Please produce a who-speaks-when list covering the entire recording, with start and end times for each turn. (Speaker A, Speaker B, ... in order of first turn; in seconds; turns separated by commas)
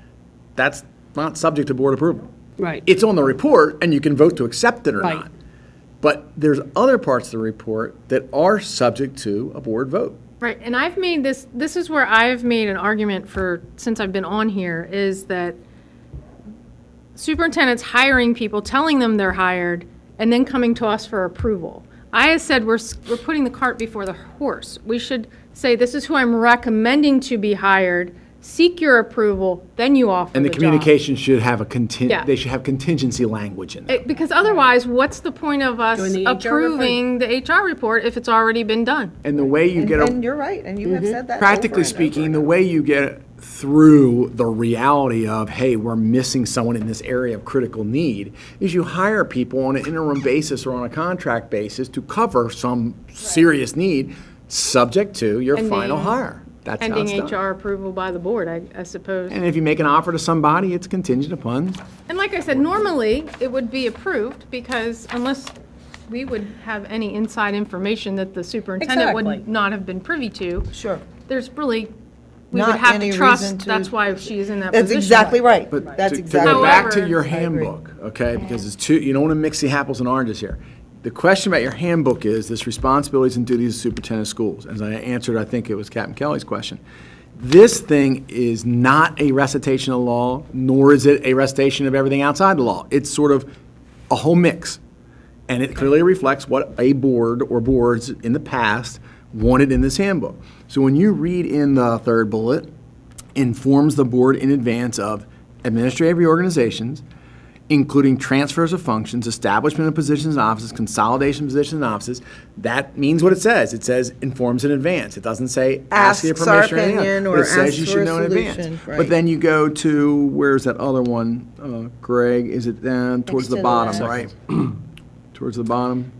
Speaker A: 0.6-2.3, Speaker B: 2.6-2.8, Speaker A: 2.8-5.3, Speaker B: 5.0-5.2, Speaker A: 6.0-10.2, Speaker C: 10.4-15.6, Speaker C: 17.1-30.9, Speaker A: 30.3-34.0, Speaker C: 33.9-39.1, Speaker B: 36.0-37.0, Speaker A: 39.2-40.2, Speaker D: 39.7-42.6, Speaker B: 40.8-41.2, Speaker A: 41.4-57.4, Speaker C: 55.5-56.2, Speaker C: 56.8-59.4, Speaker A: 59.3-61.8, Speaker C: 62.1-65.5, Speaker C: 66.1-70.7, Speaker B: 68.8-69.4, Speaker D: 70.7-71.0, Speaker C: 71.2-71.9, Speaker C: 72.5-75.4, Speaker D: 72.5-74.1, Speaker D: 74.7-77.7, Speaker A: 75.7-86.8, Speaker C: 76.4-77.2, Speaker A: 87.3-93.5, Speaker A: 94.1-94.8, Speaker A: 95.5-102.7, Speaker A: 103.3-107.0, Speaker A: 107.7-124.8, Speaker D: 115.9-119.1, Speaker D: 123.3-124.3, Speaker A: 125.3-126.1